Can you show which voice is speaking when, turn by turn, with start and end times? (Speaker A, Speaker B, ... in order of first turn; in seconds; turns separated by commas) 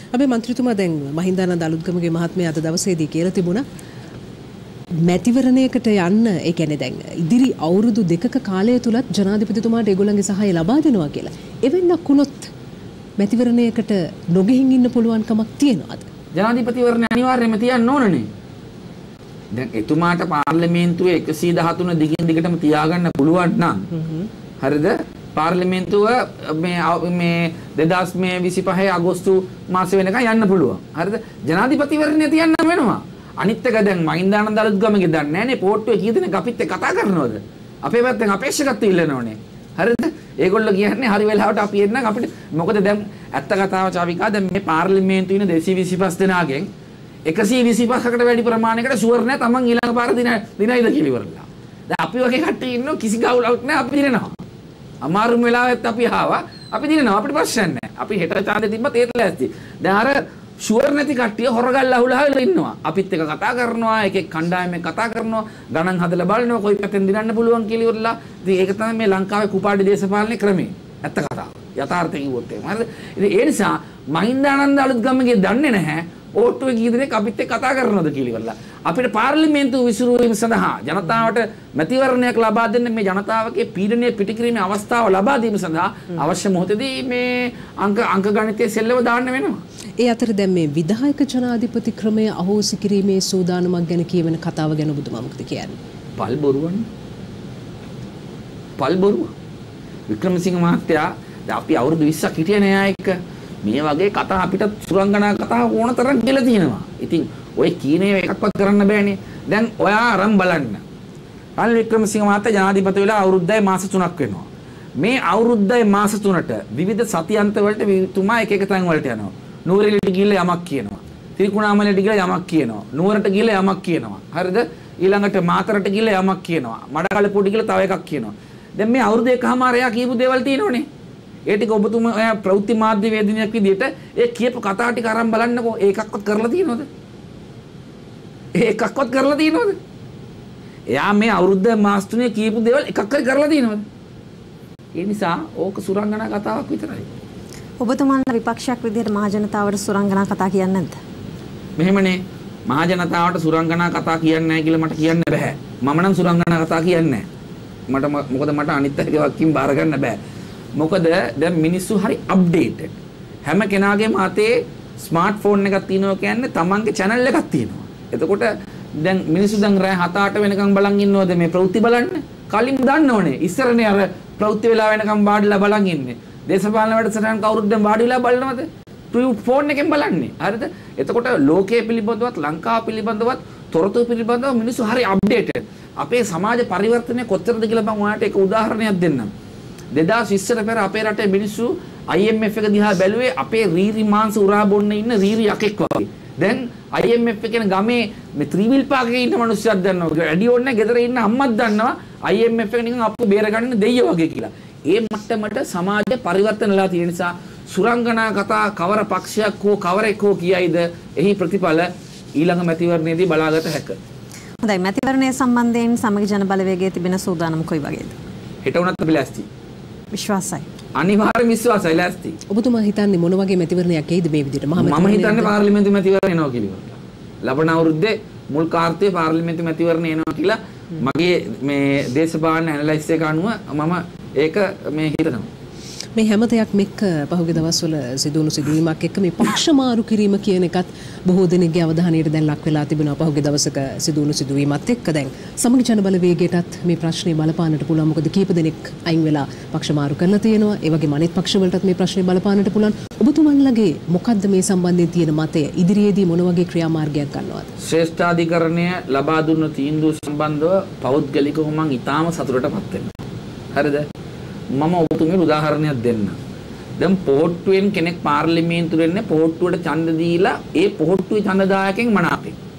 Speaker A: 0.1-3.6, Speaker A: 5.0-12.5, Speaker A: 13.2-16.1, Speaker B: 16.3-18.3, Speaker B: 19.5-23.9, Speaker A: 23.9-24.3, Speaker B: 24.6-46.7, Speaker B: 47.3-54.4, Speaker B: 55.0-89.6, Speaker A: 90.0-95.8, Speaker B: 96.2-96.8, Speaker B: 98.8-99.3, Speaker B: 100.1-110.8, Speaker B: 111.6-130.8, Speaker B: 131.4-136.9, Speaker B: 138.5-139.8, Speaker B: 140.9-143.8, Speaker B: 144.9-147.1, Speaker C: 147.8-151.0, Speaker B: 151.8-157.3, Speaker B: 157.9-160.2, Speaker B: 160.8-189.3, Speaker B: 189.9-214.0, Speaker C: 214.6-218.2, Speaker B: 218.6-219.5, Speaker C: 220.1-220.7, Speaker B: 220.9-222.4, Speaker A: 222.5-225.5, Speaker B: 224.8-235.5, Speaker A: 236.2-257.7, Speaker B: 257.8-263.1, Speaker B: 263.7-264.1, Speaker B: 264.7-266.4, Speaker B: 267.0-272.6